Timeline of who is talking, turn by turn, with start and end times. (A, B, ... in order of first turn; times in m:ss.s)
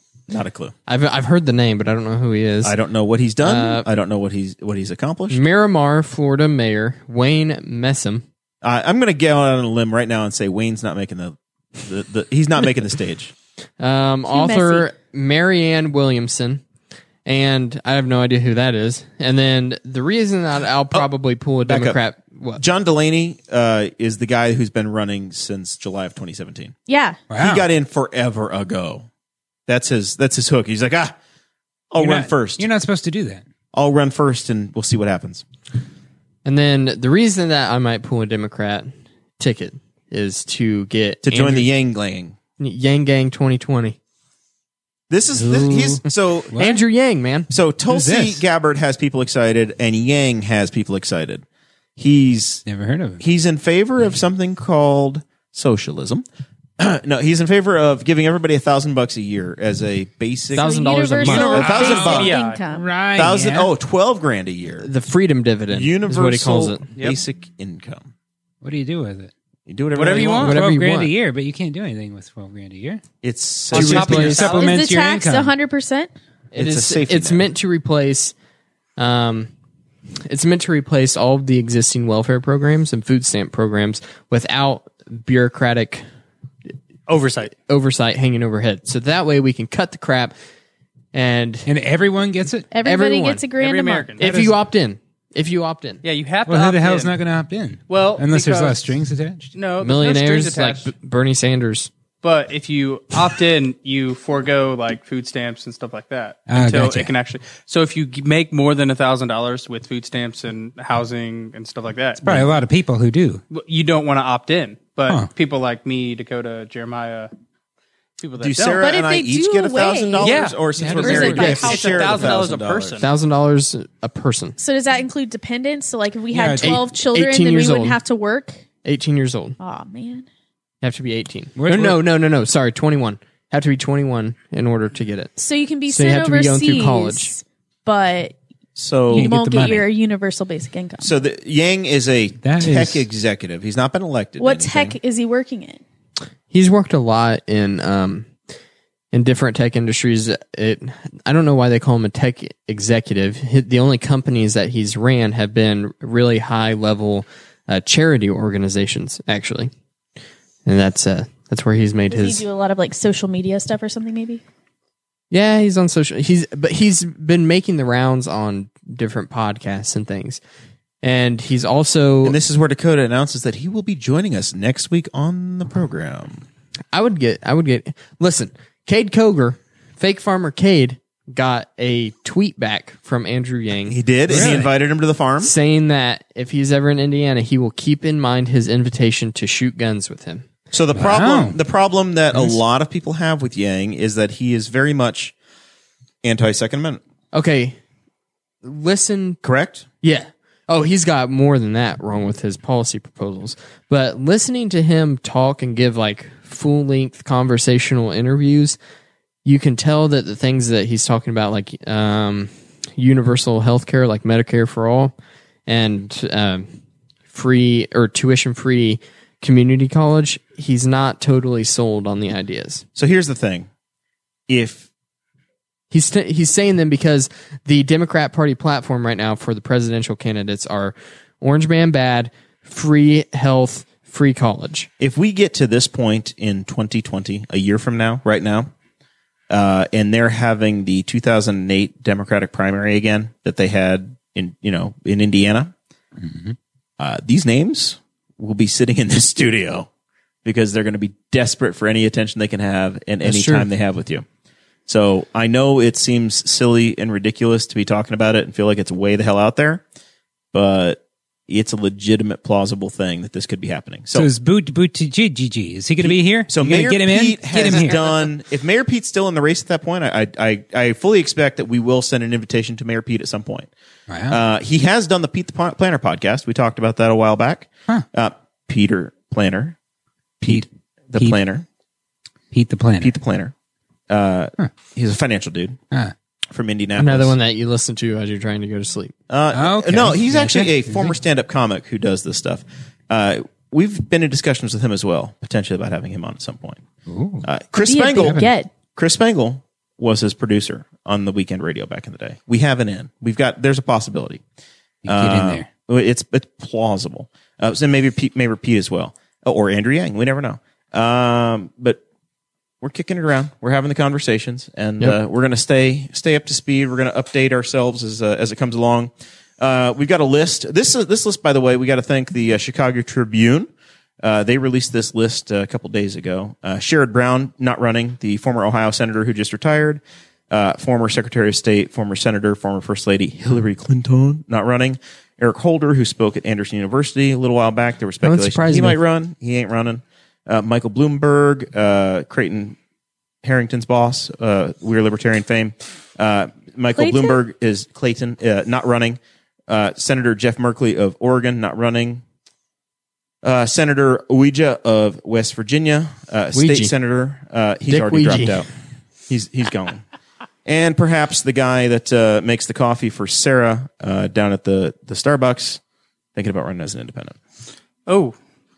0:00.3-0:00.7 A
0:00.9-0:02.8 B
0:02.6-0:05.4 A
0:03.4-0:03.9 B
0:05.3-0:08.2 B
0:08.6-0:13.3 A
0:13.8-0:16.6 B
0:14.3-0:14.9 C
0:17.2-0:22.6 B
0:21.7-0:22.0 A
0:22.6-0:26.8 A
0:26.9-0:27.3 C
0:27.3-0:27.7 D
0:27.3-0:29.1 A
0:29.7-0:31.2 A
0:31.9-0:32.7 A
0:32.0-0:33.4 D
0:33.7-0:35.4 A
0:36.4-0:41.5 B
0:41.2-0:42.4 A
0:41.3-0:41.7 D
0:42.6-0:44.0 B
0:45.1-0:46.8 A
0:45.4-0:46.0 D
0:45.5-0:46.0 B
0:46.5-0:46.8 D
0:46.5-0:47.5 B
0:47.5-0:51.4 A
0:47.9-0:48.4 D
0:52.0-0:52.6 A
0:52.7-0:53.2 D
0:53.2-0:56.2 A
0:56.8-1:02.4 A
1:00.5-1:01.9 B
1:00.6-1:02.9 C
1:01.6-1:03.7 D
1:01.9-1:02.6 E
1:03.2-1:04.9 A
1:04.8-1:06.8 B
1:05.7-1:08.1 A
1:08.6-1:09.3 D
1:09.7-1:10.6 A
1:09.9-1:10.6 E
1:10.1-1:13.0 D
1:10.4-1:11.1 B
1:13.2-1:14.4 A
1:13.7-1:14.8 E
1:13.7-1:15.5 D
1:13.8-1:14.4 B
1:14.4-1:16.1 C
1:16.5-1:18.3 B
1:16.5-1:17.5 A
1:19.0-1:19.5 B
1:20.2-1:26.0 B
1:27.1-1:27.5 E
1:27.6-1:30.4 B
1:31.1-1:31.7 B
1:31.7-1:32.7 D
1:32.7-1:34.2 C
1:32.8-1:33.4 B
1:33.6-1:34.2 E
1:34.2-1:36.0 B
1:34.2-1:34.6 D
1:36.0-1:37.1 E
1:36.5-1:39.5 D
1:37.9-1:38.8 E
1:39.5-1:40.9 E
1:39.8-1:41.9 B
1:42.2-1:52.5 E
1:46.5-1:47.1 D
1:52.2-1:53.4 D
1:53.5-1:57.3 E
1:58.2-1:58.8 E
1:58.4-2:03.0 A
1:58.7-2:02.3 C
2:00.2-2:03.0 E
2:00.8-2:01.6 D
2:03.0-2:04.6 B
2:04.6-2:08.6 C
2:06.3-2:06.8 D
2:06.6-2:08.0 B
2:08.8-2:09.6 B
2:09.6-2:10.3 C
2:10.8-2:17.3 B
2:11.6-2:12.0 D
2:15.4-2:18.4 C
2:18.8-2:19.3 A
2:19.1-2:21.1 C
2:19.1-2:19.9 D
2:21.0-2:25.0 A
2:22.4-2:23.1 D
2:24.4-2:25.8 C
2:26.5-2:28.3 B
2:29.1-2:39.7 B
2:40.7-2:42.4 B
2:42.1-2:44.4 C
2:45.3-2:50.4 B
2:51.0-2:52.4 B
2:52.2-2:56.4 A
2:56.9-3:04.6 B
3:03.9-3:05.5 A
3:04.3-3:04.7 D
3:05.4-3:10.5 B
3:10.7-3:15.4 A
3:10.9-3:11.6 D
3:12.3-3:12.6 D
3:16.2-3:17.0 A
3:17.3-3:17.8 B
3:18.6-3:19.4 B
3:19.4-3:19.9 A
3:20.0-3:28.8 B
3:29.4-3:35.2 B
3:35.7-3:36.7 B
3:37.3-3:42.8 B
3:43.0-3:43.7 A
3:44.5-3:44.9 A
3:45.9-3:54.9 B
3:55.0-3:58.7 A
3:59.5-4:05.7 A
4:06.2-4:06.6 D
4:07.0-4:09.9 A
4:10.4-4:14.3 A
4:13.2-4:13.7 B
4:14.9-4:19.8 A
4:20.5-4:24.3 A
4:24.1-4:28.3 D
4:26.0-4:33.7 A
4:34.1-4:34.4 D
4:34.3-4:39.8 A
4:40.4-4:41.7 A
4:40.4-4:41.4 D
4:42.5-4:43.1 D
4:43.0-4:43.5 A
4:44.1-4:45.8 A
4:46.5-4:47.3 A
4:47.0-4:49.1 B
4:49.3-4:56.8 A
4:49.5-4:51.2 D
4:57.1-4:57.5 D
4:57.4-5:04.4 A
4:57.8-4:58.7 C
4:58.2-4:58.5 D
5:05.0-5:05.7 D
5:05.1-5:12.0 A
5:12.8-5:23.7 A
5:24.2-5:42.8 A
5:38.2-5:39.0 B
5:43.4-5:52.2 A
5:47.0-5:47.4 C
5:53.4-5:58.7 A
5:56.5-5:56.9 B
5:57.9-5:58.6 B
5:59.3-6:00.0 A
6:00.7-6:05.8 A
6:06.4-6:07.4 A
6:08.1-6:08.4 E